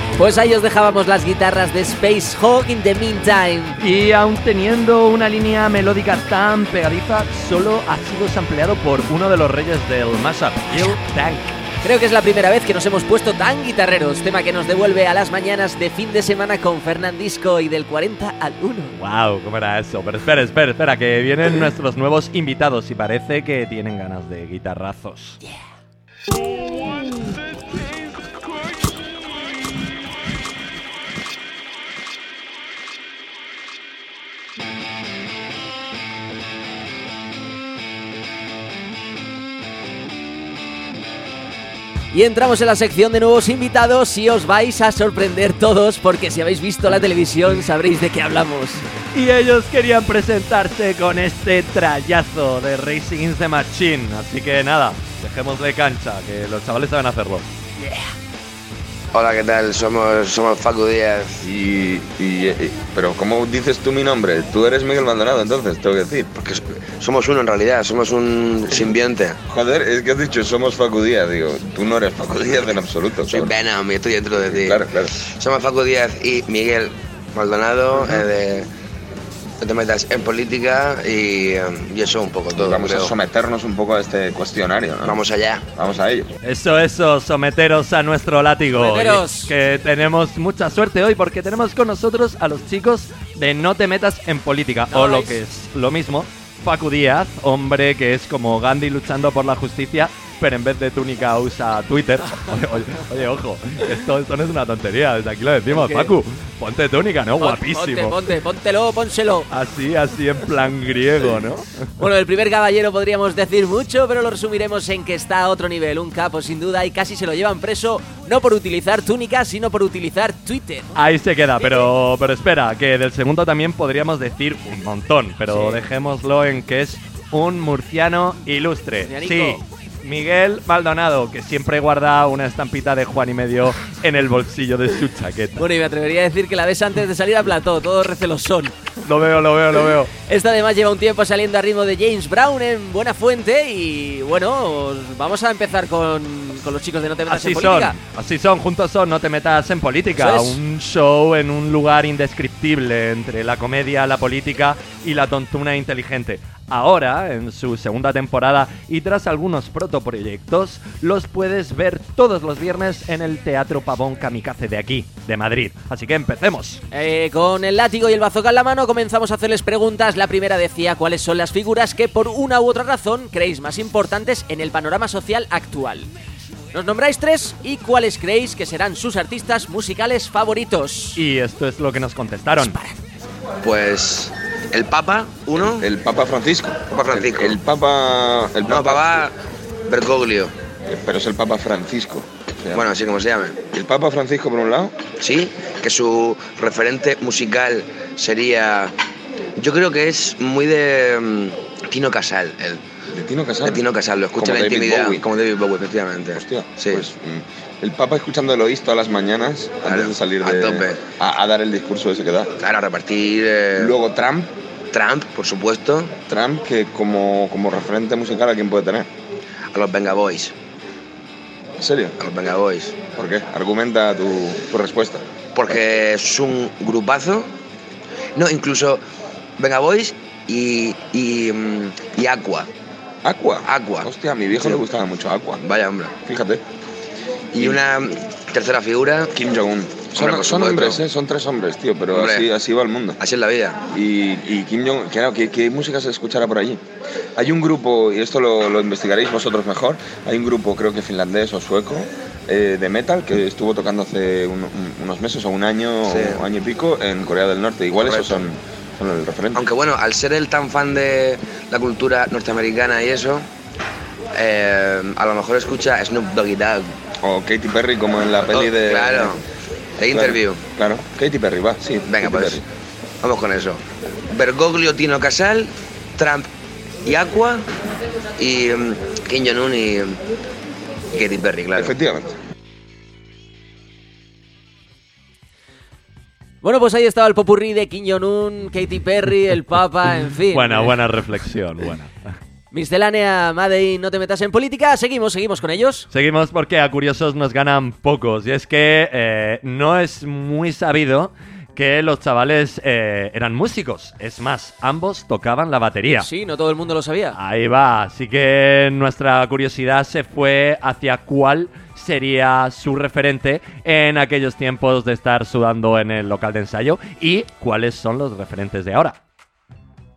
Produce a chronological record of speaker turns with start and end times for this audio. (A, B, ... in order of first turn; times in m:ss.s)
0:00.2-0:03.8 A
0:03.8-0:11.5 B
0:11.8-0:19.0 A
0:18.9-0:25.4 B
0:42.1-0:48.8 A
0:49.1-0:57.5 B
0:59.1-1:01.4 C
1:01.4-1:06.3 D
1:06.4-1:09.4 C
1:09.5-1:13.5 D
1:13.2-1:18.7 C
1:14.5-1:15.1 D
1:19.6-1:23.1 C
1:22.5-1:25.2 D
1:25.0-1:25.6 C
1:25.7-1:26.3 D
1:26.4-1:48.2 B
1:28.7-1:29.5 A
1:34.9-1:35.4 A
1:45.7-1:46.1 A
1:47.4-1:49.5 A
1:49.5-1:51.7 B
1:52.0-2:01.0 A
2:01.0-2:15.6 B
2:05.5-2:05.8 A
2:09.0-2:09.6 A
2:15.6-2:18.9 A
2:19.0-2:20.1 B
2:20.2-2:28.0 A
2:27.3-2:46.8 B
2:30.2-2:30.6 A
2:46.9-2:56.1 A
2:56.7-3:01.2 A
3:01.2-3:02.8 B
3:03.6-3:05.9 C
3:05.8-3:09.3 D
3:06.9-3:07.6 C
3:08.7-3:09.3 C
3:09.9-3:10.5 C
3:10.9-3:12.9 D
3:12.7-3:13.6 C
3:13.7-3:15.1 D
3:15.2-3:18.9 C
3:19.6-3:22.8 C
3:23.1-3:23.8 D
3:23.6-3:27.0 C
3:24.4-3:25.2 D
3:26.3-3:32.5 D
3:29.8-3:31.1 C
3:32.6-3:34.0 C
3:33.8-3:34.5 D
3:34.9-3:36.2 C
3:36.3-3:39.1 D
3:39.7-3:40.5 C
3:41.8-3:42.1 D
3:42.2-3:43.0 C
3:43.2-3:45.2 D
3:45.5-3:47.5 C
3:48.4-3:49.0 C
3:49.6-3:52.7 C
3:53.2-3:55.6 D
3:53.6-3:54.8 C
3:55.6-3:56.2 C
3:56.2-3:56.6 D
3:57.5-3:59.3 C
3:59.3-4:03.2 D
4:00.1-4:01.0 C
4:02.1-4:02.5 C
4:03.2-4:03.8 C
4:03.9-4:06.8 D
4:07.4-4:19.7 D
4:16.0-4:16.4 C
4:18.0-4:18.4 C
4:19.5-4:23.5 C
4:24.3-4:26.9 C
4:27.2-4:29.4 D
4:28.4-4:29.4 C
4:30.0-4:30.6 C
4:30.1-4:32.6 D
4:32.0-4:32.6 C
4:33.2-4:36.5 C
4:37.0-4:37.7 C
4:38.4-4:40.2 C
4:41.1-4:41.9 C
4:41.7-4:42.3 D
4:46.6-4:50.9 A
4:50.5-4:52.1 B
4:52.7-4:56.1 A
4:56.1-5:06.3 B
5:06.2-5:07.4 A
5:07.4-5:19.2 B